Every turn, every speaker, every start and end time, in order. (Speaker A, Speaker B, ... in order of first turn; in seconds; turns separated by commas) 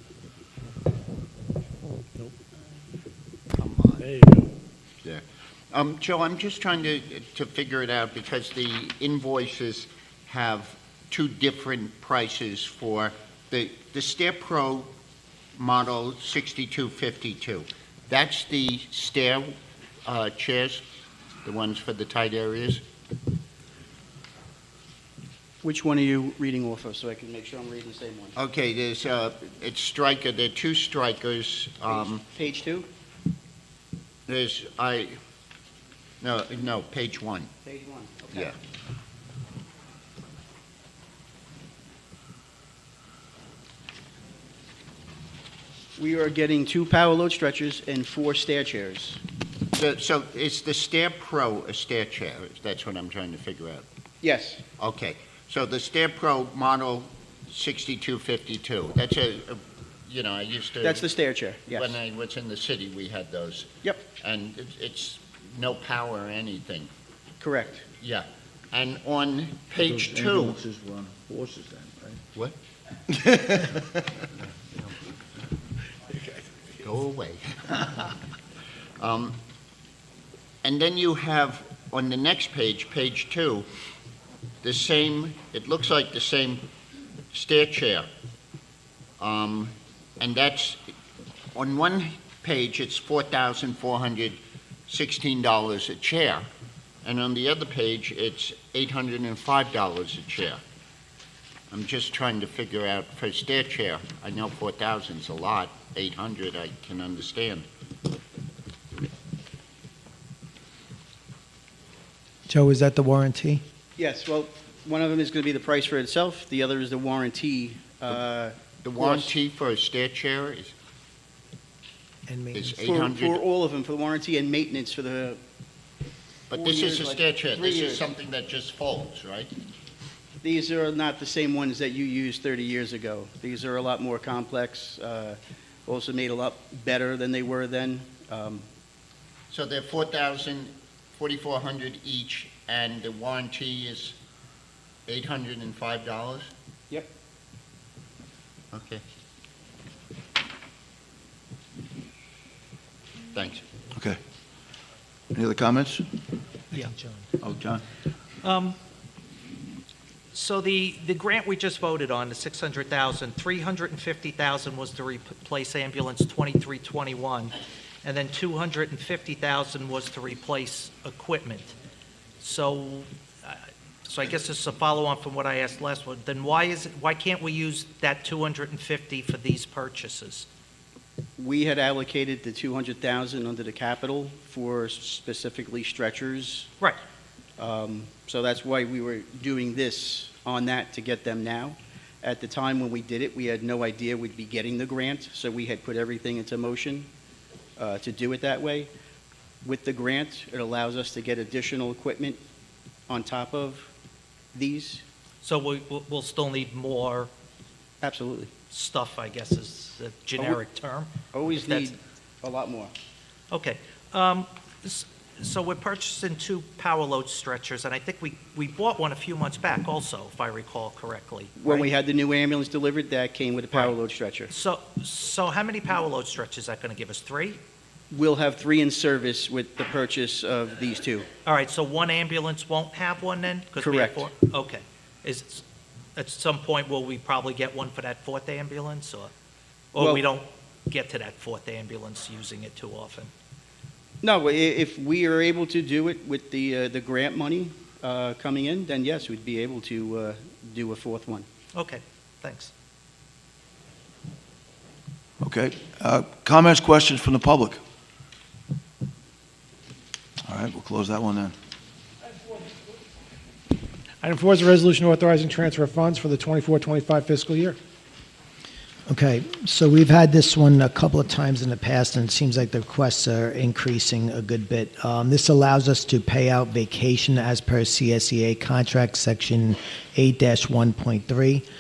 Speaker A: 3.6-4.1, Speaker A: 5.0-14.9, Speaker A: 15.6-19.5, Speaker A: 20.1-20.8, Speaker A: 21.4-22.8, Speaker B: 25.6-28.4, Speaker A: 28.4-32.2, Speaker B: 31.9-32.9, Speaker A: 34.3-35.1, Speaker A: 36.2-37.5, Speaker B: 37.6-38.5, Speaker B: 46.0-49.2, Speaker A: 49.7-53.9, Speaker B: 54.2-54.6, Speaker A: 54.8-61.1, Speaker B: 60.8-62.0, Speaker A: 61.7-66.9, Speaker B: 67.4-67.8, Speaker A: 68.0-70.6, Speaker C: 70.0-72.2, Speaker A: 76.8-78.1, Speaker A: 79.0-79.4, Speaker A: 80.6-83.7, Speaker A: 84.6-86.7, Speaker A: 87.3-88.1, Speaker A: 89.2-90.8, Speaker A: 91.5-96.5, Speaker A: 97.0-100.6, Speaker A: 101.7-107.7, Speaker D: 112.5-113.6, Speaker B: 114.0-119.3, Speaker A: 118.8-120.7, Speaker D: 122.3-122.7, Speaker A: 122.5-123.4, Speaker B: 122.7-125.4, Speaker A: 126.5-129.5, Speaker B: 126.5-128.1, Speaker B: 130.4-138.7, Speaker A: 139.5-144.2, Speaker A: 145.1-146.5, Speaker A: 148.7-149.0, Speaker A: 153.3-153.6, Speaker C: 155.3-156.1, Speaker D: 156.7-157.2, Speaker C: 157.4-157.8, Speaker E: 158.4-158.8, Speaker E: 160.3-171.8, Speaker E: 172.4-180.5, Speaker B: 181.4-186.7, Speaker B: 187.6-197.1, Speaker B: 197.8-198.9, Speaker B: 199.6-202.4, Speaker B: 203.1-203.9, Speaker B: 204.5-205.0, Speaker E: 205.4-207.3, Speaker B: 208.0-208.5, Speaker E: 208.7-211.9, Speaker B: 211.3-212.9, Speaker E: 213.5-221.9, Speaker B: 221.6-224.5, Speaker E: 224.5-227.6, Speaker B: 228.1-231.3, Speaker E: 231.4-235.6, Speaker B: 233.8-234.3, Speaker E: 236.2-239.3, Speaker E: 239.9-243.3, Speaker B: 240.0-240.2, Speaker B: 244.2-251.5, Speaker E: 251.8-252.7, Speaker C: 255.4-257.8, Speaker C: 260.5-261.6, Speaker F: 264.2-267.8, Speaker D: 269.1-281.6